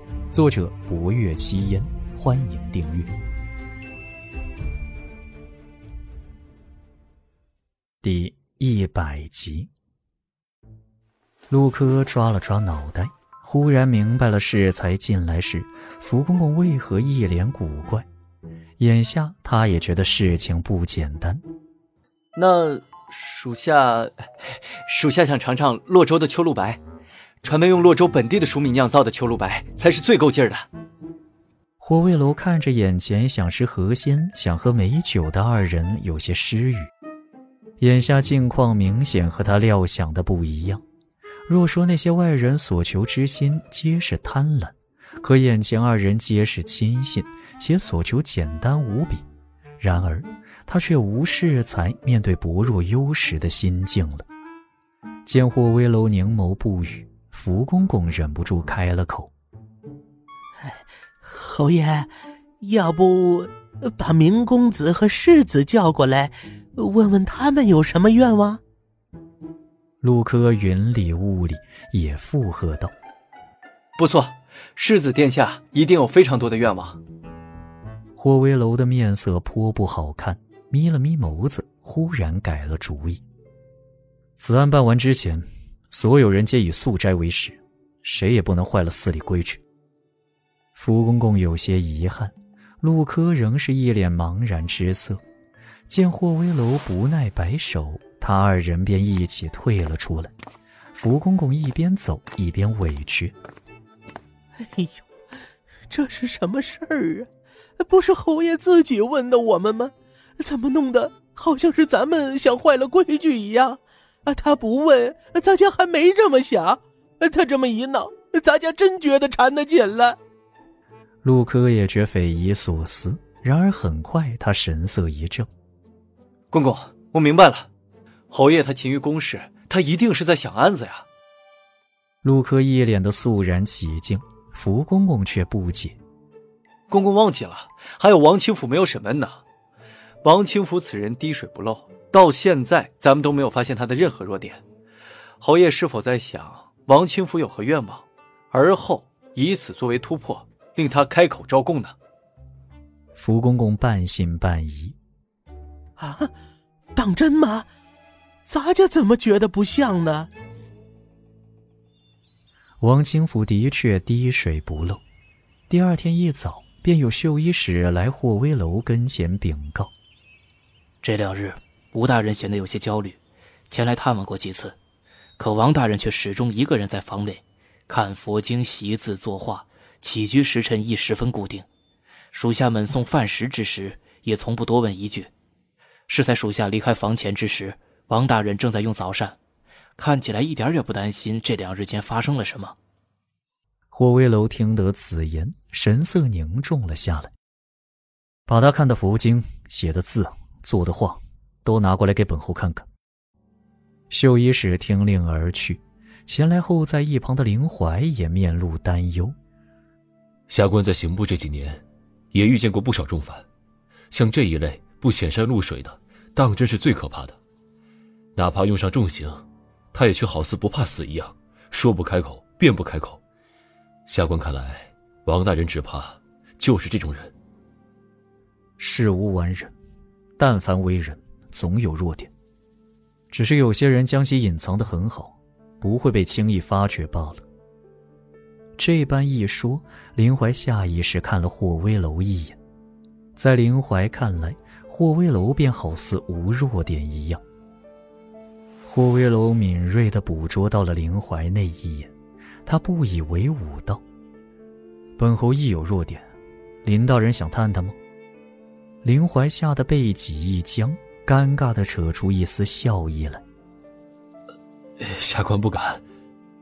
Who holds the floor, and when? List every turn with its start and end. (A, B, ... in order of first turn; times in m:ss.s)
0:00.3-0:03.1 A
0:08.0-0:09.7 A
0:11.5-0:18.1 A
0:18.8-0:21.4 A
0:22.4-0:26.8 B
0:27.4-0:30.6 B
0:31.8-0:36.9 A
0:37.8-0:40.8 A
0:41.5-0:49.2 A
0:49.8-0:54.2 A
0:55.2-0:59.3 A
1:00.6-1:02.1 C
1:02.6-1:08.6 C
1:10.0-1:12.9 A
1:14.0-1:17.0 B
1:18.2-1:23.2 A
1:24.4-1:29.6 A
1:30.7-1:35.2 A
1:35.9-1:40.3 A
1:40.9-1:43.3 A
1:44.6-1:45.0 C
1:45.9-2:00.2 C
2:01.2-2:05.5 A
2:06.5-2:07.7 B
2:08.3-2:11.0 B
2:12.2-2:16.0 A
2:16.9-2:19.4 B
2:20.2-2:24.6 B
2:25.4-2:32.0 B
2:33.1-2:35.0 A
2:36.0-2:36.3 C
2:36.9-2:37.7 C
2:38.5-2:40.3 C
2:42.8-2:45.0 A
2:45.7-2:49.9 A
2:51.0-2:53.2 D
2:53.7-2:54.8 D
2:55.4-3:01.6 D
3:02.3-3:05.3 D
3:06.1-3:09.4 D
3:10.0-3:12.7 D
3:13.9-3:17.3 A
3:18.5-3:22.9 A
3:24.1-3:29.3 A
3:30.5-3:33.4 E
3:34.1-3:37.4 E
3:38.3-3:43.2 E
3:44.1-3:47.3 E
3:48.8-3:49.7 A
3:50.4-3:52.3 A
3:53.3-3:57.4 A
3:58.8-4:02.6 A
4:03.4-4:07.4 A
4:08.8-4:12.1 A
4:12.6-4:14.0 A
4:15.2-4:16.2 A
4:16.8-4:18.0 A
4:19.0-4:23.4 A
4:25.0-4:26.0 E